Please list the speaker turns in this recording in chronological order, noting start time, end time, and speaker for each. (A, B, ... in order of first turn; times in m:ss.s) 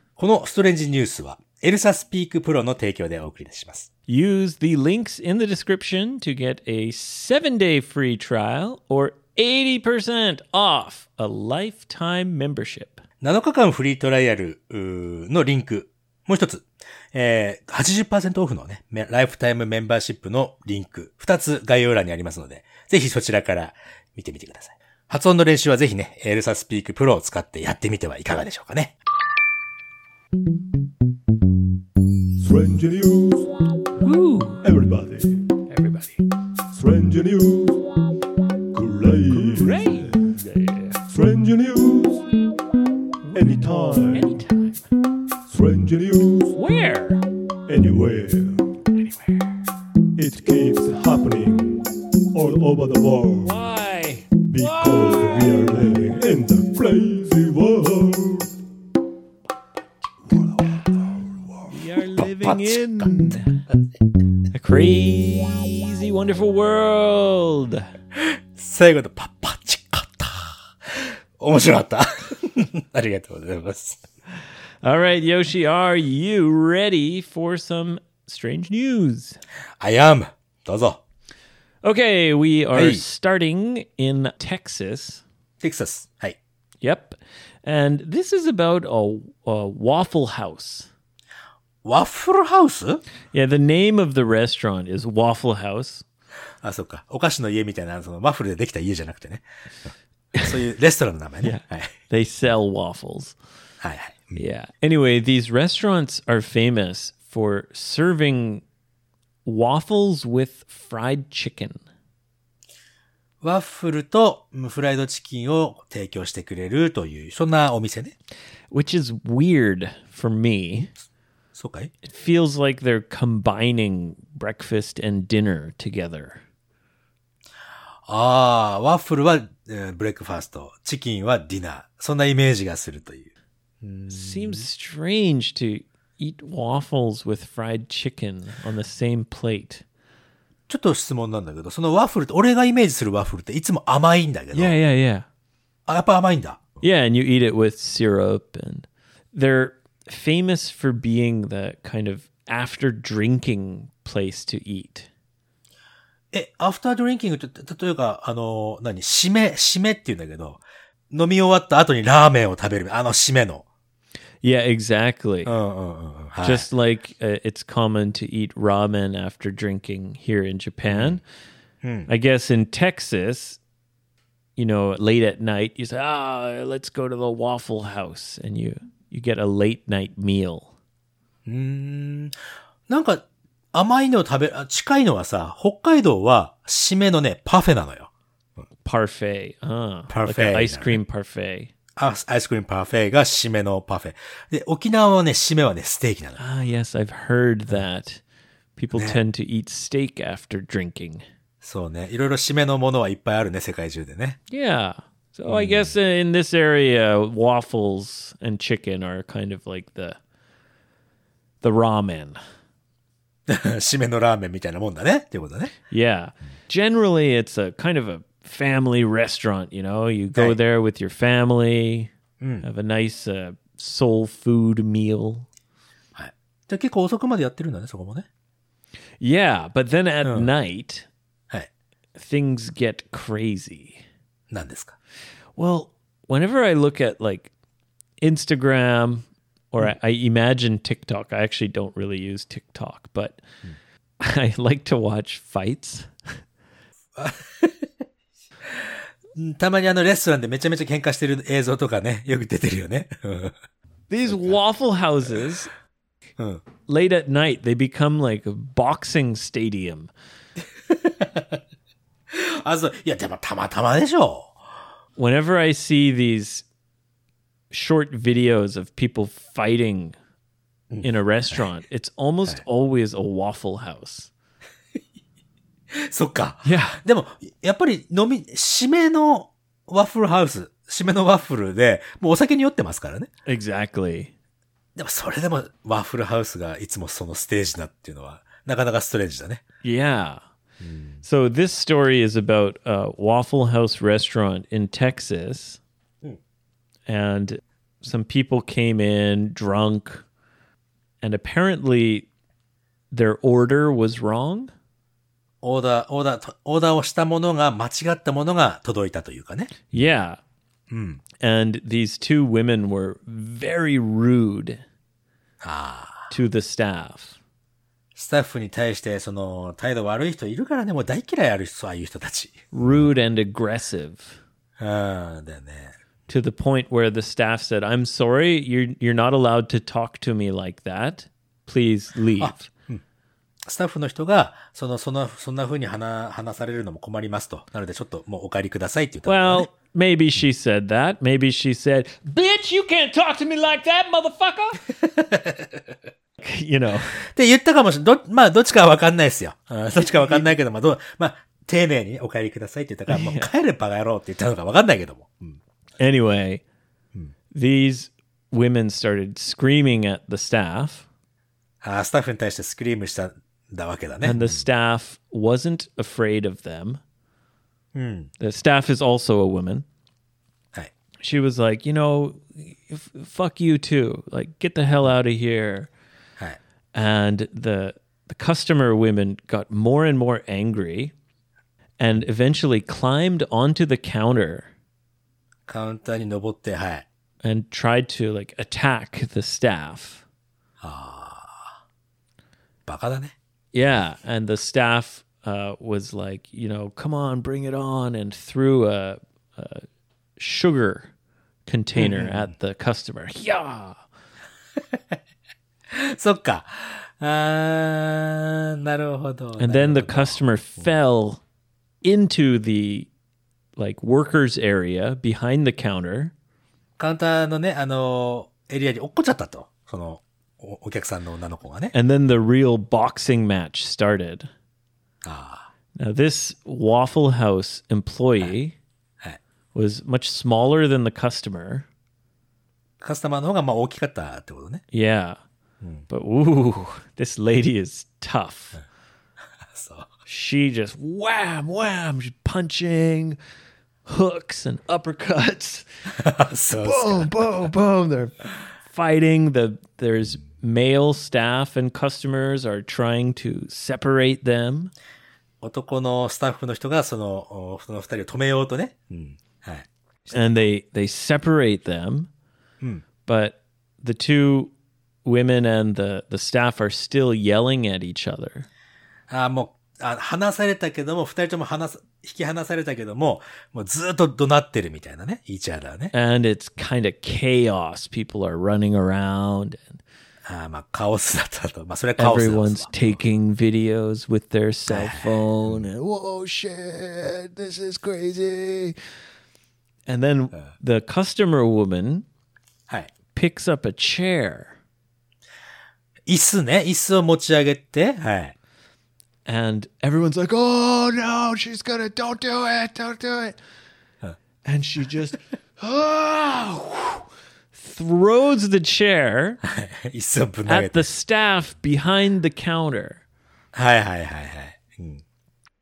0:00.2-0:03.9 A
0:04.1-0:13.0 B
0:13.2-0:29.0 A
0:32.4-0:33.5 C
0:34.0-0:34.6 B
0:34.6-0:35.5 C
0:35.7-0:36.2 B
0:36.7-0:37.9 C
0:38.7-0:40.3 C
0:39.3-0:41.0 B
0:41.0-0:42.2 C
0:43.2-0:44.8 B
0:43.3-0:44.4 C
0:45.5-0:46.6 C
0:46.5-0:47.2 B
0:47.7-0:48.8 C
0:49.0-0:49.3 B
0:50.2-0:53.6 C
0:53.4-0:55.7 B
0:54.5-0:58.5 C
1:00.3-1:01.6 C
1:01.7-1:03.6 B
1:02.2-1:03.5 A
1:04.5-1:07.9 B
1:08.1-1:14.0 A
1:14.8-1:19.4 B
1:19.8-1:21.0 A
1:21.8-1:25.2 B
1:22.7-1:23.0 A
1:25.6-1:26.4 A
1:26.8-1:30.9 B
1:31.8-1:33.0 A
1:33.3-1:36.0 B
1:36.6-1:41.9 A
1:41.4-1:43.4 B
1:43.8-1:44.4 A
1:44.4-1:48.6 B
1:49.4-1:51.8 B
1:53.4-1:58.1 A
1:58.7-2:00.9 B
2:01.5-2:01.9 A
2:02.0-2:06.4 B
2:08.1-2:13.3 A
2:13.8-2:14.7 A
2:14.1-2:19.8 B
2:20.7-2:24.8 A
2:24.5-2:25.2 B
2:25.9-2:26.8 A
2:26.8-2:35.1 B
2:36.3-2:43.6 A
2:44.4-2:45.5 B
2:45.4-2:46.7 A
2:46.4-2:51.2 B
2:50.8-2:51.2 A
2:51.8-2:52.1 A
2:52.1-2:53.6 B
2:54.6-3:00.7 B
3:01.4-3:02.3 A
3:02.9-3:08.6 A
3:08.8-3:11.7 B
3:10.1-3:11.0 A
3:12.0-3:16.4 A
3:16.4-3:18.2 B
3:18.8-3:21.2 B
3:18.9-3:19.2 A
3:21.6-3:24.4 A
3:24.5-3:30.2 B
3:25.5-3:25.9 A
3:31.6-3:32.4 B
3:33.5-3:35.7 A
3:35.9-3:42.1 B
3:42.4-3:42.6 A
3:42.6-3:45.5 B
3:46.1-3:48.3 A
3:49.2-3:51.1 B
3:50.2-3:50.5 A
3:52.2-3:54.0 B
3:54.5-3:54.9 A
3:55.6-3:57.5 B
3:58.2-4:03.4 B
4:04.2-4:06.1 B
4:07.1-4:07.9 A
4:08.6-4:13.6 A
4:14.1-4:15.7 B
4:14.3-4:14.6 A
4:16.4-4:16.6 A
4:16.8-4:20.1 B
4:20.9-4:21.6 A
4:22.3-4:24.6 A
4:25.2-4:26.6 B
4:27.7-4:30.1 B
4:30.9-4:31.6 A
4:31.0-4:34.3 B
4:35.9-4:43.3 A
4:36.6-4:37.0 B
4:43.5-4:44.3 B
4:44.9-4:49.6 A
4:49.8-4:50.4 B
4:50.8-4:51.2 A
4:51.2-4:55.8 B
4:57.1-5:00.2 B
5:01.2-5:02.3 B
5:03.1-5:04.7 B
5:05.6-5:09.8 A
5:09.9-5:10.4 B
5:10.9-5:11.2 A
5:11.4-5:14.8 B
5:15.6-5:16.3 A
5:16.3-5:17.4 B
5:18.1-5:23.1 A
5:22.7-5:24.4 B
5:24.8-5:26.0 A
5:26.3-5:32.7 B
5:32.4-5:33.0 A
5:33.6-5:39.7 A
5:39.2-5:44.8 B
5:45.1-5:45.6 A
5:46.4-5:47.2 B
5:47.2-5:55.6 A
5:50.0-5:50.5 B
5:53.1-5:53.5 B
5:56.0-5:56.6 B
5:57.5-6:01.0 B
6:01.8-6:04.6 A
6:04.2-6:07.0 B
6:07.9-6:08.3 A
6:08.4-6:09.8 B
6:11.2-6:15.9 B
6:16.9-6:21.1 B
6:22.0-6:24.7 B
6:25.7-6:27.0 A
6:27.4-6:30.2 B
6:30.8-6:31.7 A
6:32.8-6:33.3 A
6:33.7-6:39.8 B
6:40.4-6:41.1 B
6:41.6-6:44.0 B
6:42.0-6:42.5 A
6:44.9-6:45.2 A
6:45.9-6:50.9 A
6:49.6-6:51.4 B
6:52.0-6:53.1 B
6:53.8-6:56.3 B
6:57.0-7:01.9 A
7:01.9-7:04.5 B
7:05.2-7:05.7 A
7:06.0-7:08.8 B
7:09.7-7:11.8 B
7:13.0-7:14.8 A
7:14.9-7:15.4 B
7:16.1-7:18.8 B
7:19.7-7:20.1 A
7:20.3-7:23.4 B
7:24.0-7:25.8 B
7:26.1-7:27.7 A
7:26.8-7:34.9 B
7:35.6-7:40.6 A
7:40.3-7:42.3 B
7:43.2-7:44.7 B
7:45.2-7:48.7 B
7:49.3-7:56.1 A
7:56.1-8:00.0 B
8:00.4-8:03.2 A
8:02.2-8:09.0 B
8:04.9-8:05.8 A
8:10.1-8:12.2 B
8:13.3-8:14.8 B
8:16.3-8:18.5 A
8:19.4-8:23.6 B
8:24.6-8:29.6 B
8:29.6-8:31.1 A
8:30.7-8:33.2 B
8:33.7-8:35.2 A